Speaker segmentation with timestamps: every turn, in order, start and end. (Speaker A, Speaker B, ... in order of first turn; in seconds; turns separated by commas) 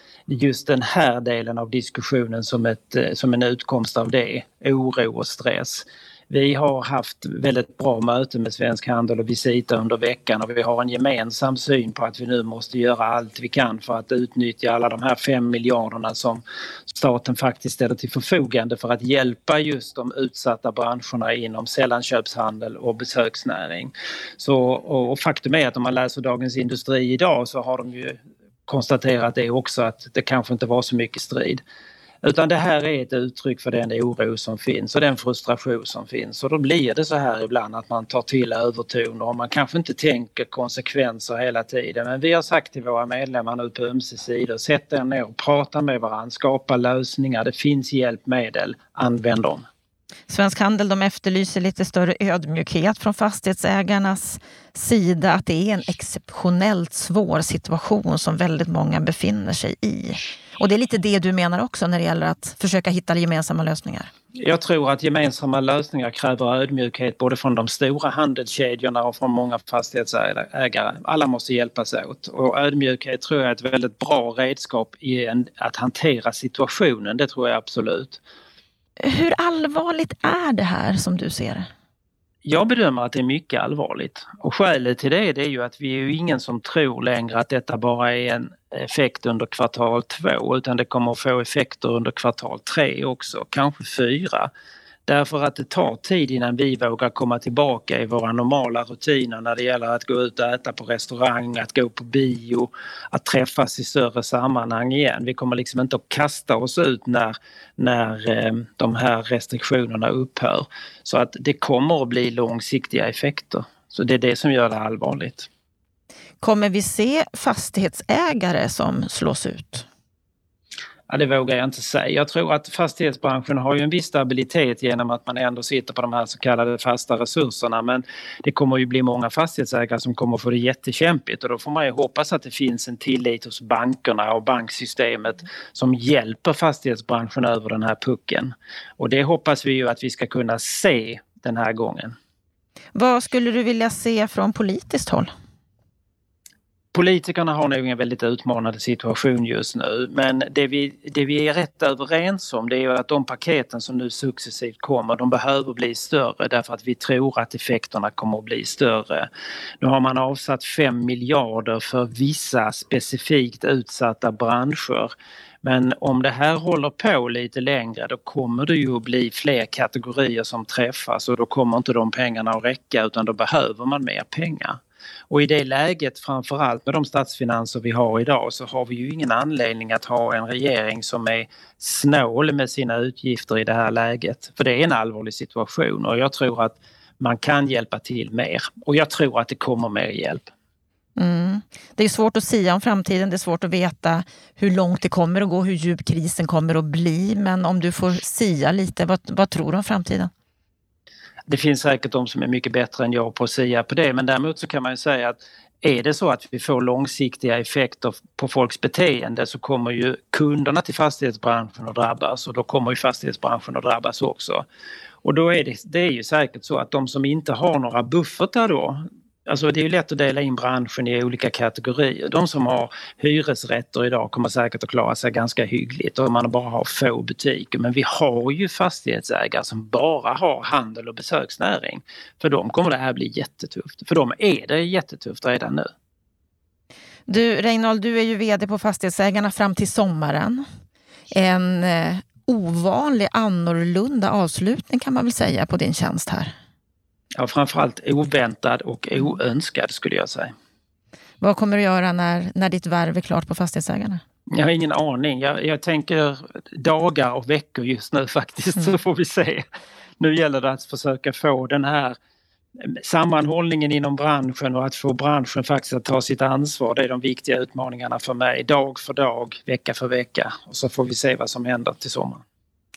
Speaker A: 0.3-31.6, Speaker A: 32.2-49.6, Speaker B: 50.3-64.1, Speaker A: 64.3-78.2, Speaker B: 79.0-81.7, Speaker A: 82.4-94.5, Speaker A: 95.1-115.5, Speaker B: 116.4-119.8, Speaker A: 121.1-142.1, Speaker B: 142.9-145.3, Speaker A: 146.9-159.3, Speaker A: 159.8-190.5, Speaker B: 191.2-200.3, Speaker A: 201.5-214.7, Speaker A: 215.2-235.9, Speaker B: 237.3-240.6, Speaker B: 241.3-246.5, Speaker A: 247.4-250.5, Speaker B: 251.4-254.2, Speaker A: 254.5-259.6, Speaker A: 260.2-262.2, Speaker A: 262.9-272.4